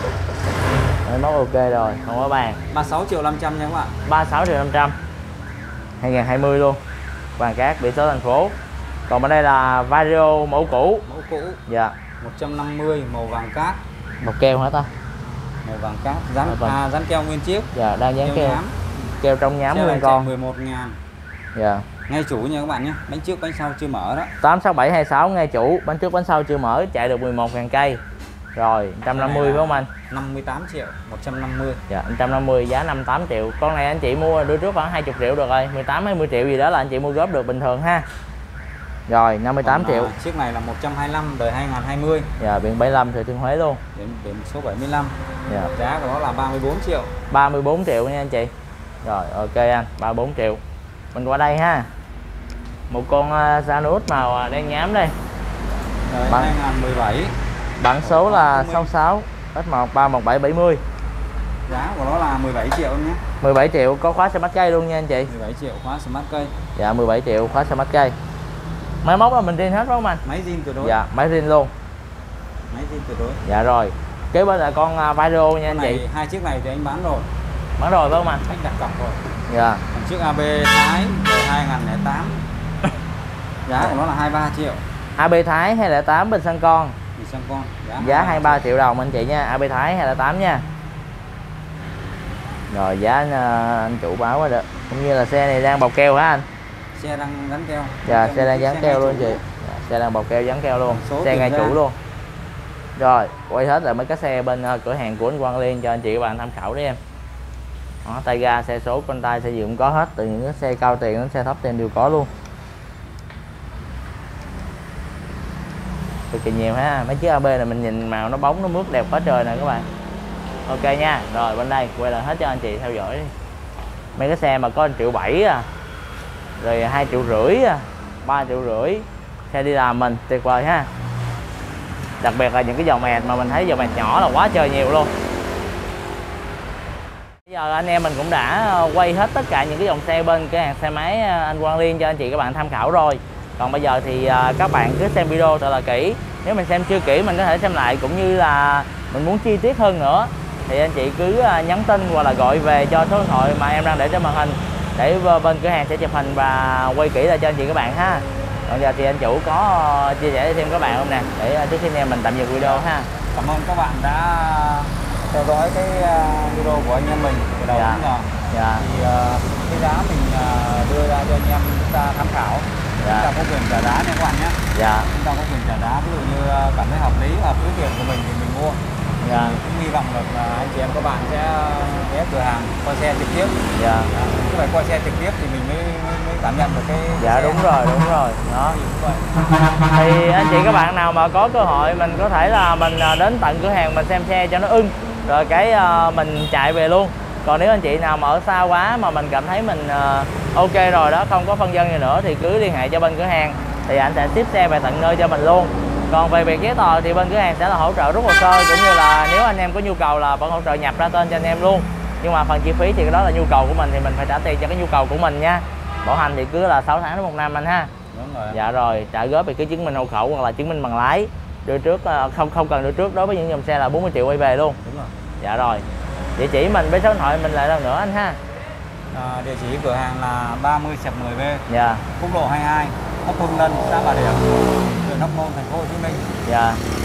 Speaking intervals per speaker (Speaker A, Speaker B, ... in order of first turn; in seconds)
Speaker A: 1.0-2.6, 4.0-4.9, 6.0-6.8, 7.4-8.6, 9.1-11.0, 11.7-11.9, 14.2-14.9, 16.4-16.8, 17.7-18.6, 19.2-20.3, 21.6-21.9, 24.4-28.0, 28.6-29.9, 31.9-38.0, 39.1-40.1, 42.4-43.8, 47.3-48.5, 49.0-50.6, 51.1-51.9, 52.9-55.1, 57.8-60.8, 63.4-65.3, 66.8-68.2, 69.0-70.2, 70.8-71.7, 73.4-76.0, 77.8-78.4, 79.5-79.8, 85.2-87.0, 88.0-90.6, 92.7-96.4, 98.0-102.0, 103.0-107.0, 108.0-112.3, 116.3-119.8, 120.7-123.3, 124.2-125.7, 126.6-130.9, 132.2-135.1, 137.5-163.1, 167.7-168.8, 173.0-173.3, 174.7-175.1, 179.2-179.6, 183.7-184.1, 187.2-188.8, 189.9-217.9, 218.5-224.8, 225.4-225.8, 226.4-228.4, 231.7-232.0, 236.4-236.8
Speaker B: 2.7-3.9, 11.1-11.6, 12.2-13.8, 15.6-18.7, 19.7-20.9, 22.1-24.3, 29.1-31.8, 39.6-42.3, 44.0-45.1, 45.8-47.1, 56.1-57.3, 58.0-58.9, 61.7-63.2, 65.3-66.5, 70.2-71.0, 72.7-73.4, 75.7-77.3, 78.4-79.2, 79.9-82.4, 83.7-84.8, 87.2-88.7, 97.0-99.4, 100.9-101.8, 162.5-178.8, 179.3-187.6, 188.5-189.2, 218.1-218.6, 224.8-225.1, 229.1-231.7, 232.2-236.2